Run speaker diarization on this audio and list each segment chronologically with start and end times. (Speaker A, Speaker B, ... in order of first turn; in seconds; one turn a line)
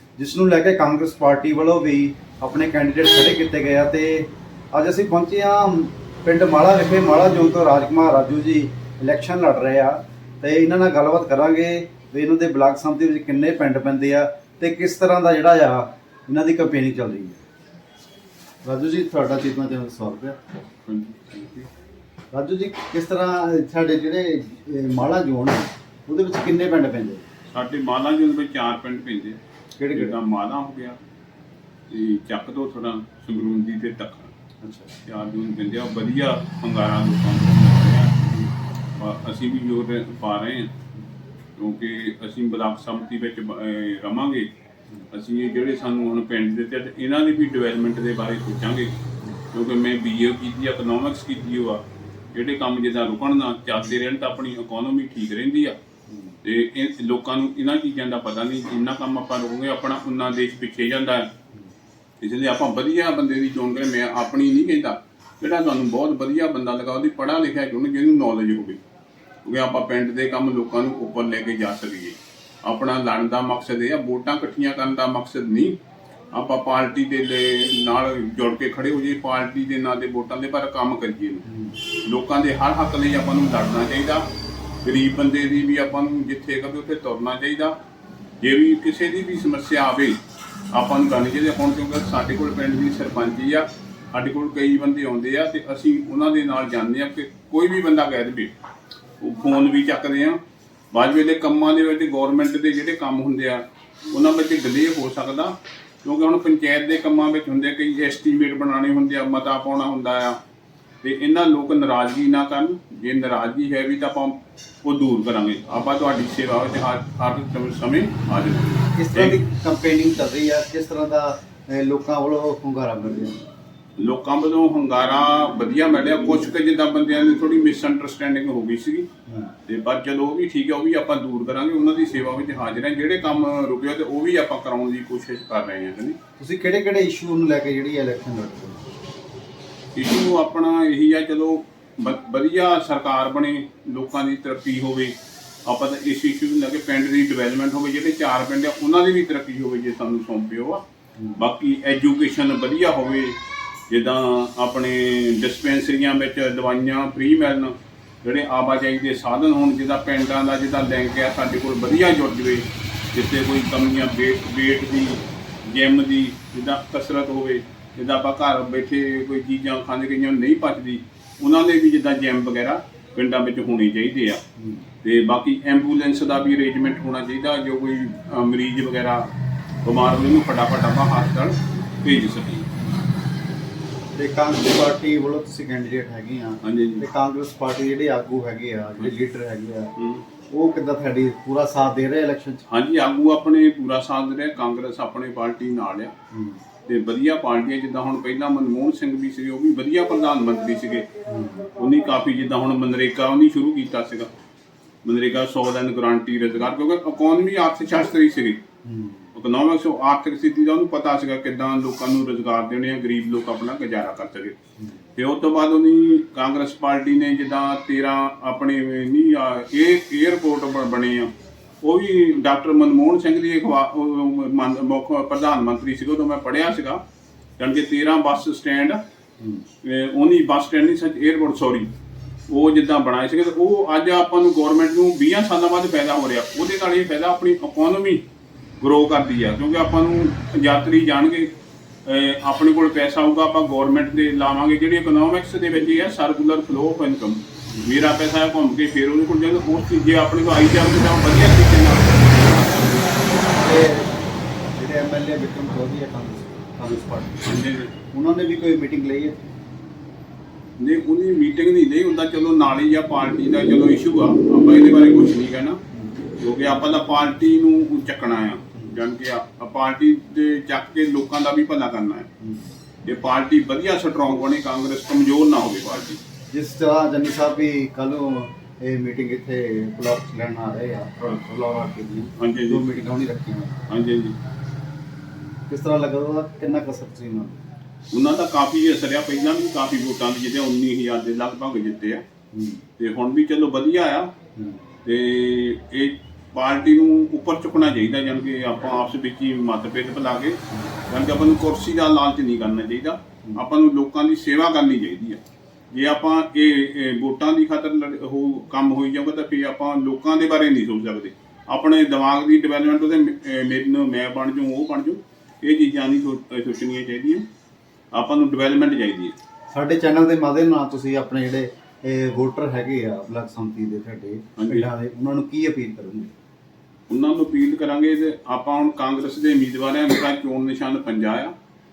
Speaker A: 0.2-17.4
Speaker A: 18.6-20.4
Speaker B: 20.9-21.7
Speaker A: 22.3-27.2
Speaker B: 27.5-29.4
Speaker A: 29.8-30.1
Speaker B: 29.9-31.0
Speaker B: 31.9-34.3
Speaker A: 34.6-35.0
Speaker B: 35.1-38.2
Speaker A: 38.2-38.5
Speaker B: 39.0-40.7
Speaker B: 41.6-44.5
Speaker B: 45.1-48.9
Speaker B: 49.5-51.8
Speaker B: 52.3-55.8
Speaker A: 56.1-56.4
Speaker B: 56.4-61.3
Speaker B: 62.2-68.8
Speaker B: 69.5-75.8
Speaker B: 76.3-81.4
Speaker A: 81.5-81.8
Speaker B: 82.0-84.3
Speaker B: 84.8-87.8
Speaker B: 88.4-90.2
Speaker B: 90.7-98.5
Speaker B: 99.2-100.4
Speaker B: 100.9-110.4
Speaker B: 111.0-119.4
Speaker A: 119.0-123.4
Speaker B: 124.0-129.1
Speaker B: 129.7-136.2
Speaker A: 136.4-138.8
Speaker B: 139.9-150.8
Speaker B: 151.4-153.4
Speaker B: 153.9-174.4
Speaker A: 174.6-174.8
Speaker B: 175.0-179.3
Speaker B: 179.8-182.7
Speaker A: 184.2-189.9
Speaker B: 186.6-187.1
Speaker B: 190.0-190.3
Speaker A: 190.5-192.7
Speaker B: 192.7-196.1
Speaker A: 196.3-196.6
Speaker B: 196.9-201.1
Speaker A: 201.3-201.7
Speaker B: 201.8-204.3
Speaker B: 205.0-208.6
Speaker A: 208.8-209.3
Speaker B: 209.3-214.6
Speaker B: 215.2-227.0
Speaker B: 227.6-229.0
Speaker A: 229.4-229.7
Speaker B: 229.8-231.9
Speaker B: 232.5-238.2
Speaker B: 238.8-241.5
Speaker B: 242.1-253.1
Speaker A: 253.5-254.2
Speaker A: 254.8-257.6
Speaker B: 257.4-257.9
Speaker A: 258.1-259.5
Speaker B: 260.8-265.8
Speaker B: 266.4-272.3
Speaker A: 272.4-272.8
Speaker B: 273.1-276.2
Speaker A: 276.5-283.9
Speaker B: 282.4-282.9
Speaker B: 283.9-284.4
Speaker A: 285.7-287.6
Speaker B: 288.1-292.2
Speaker A: 292.5-292.8
Speaker B: 293.0-294.3
Speaker A: 294.6-294.9
Speaker B: 295.1-305.4
Speaker B: 305.9-317.4
Speaker B: 318.1-319.4
Speaker A: 319.7-326.3
Speaker B: 324.6-324.9
Speaker B: 327.1-331.5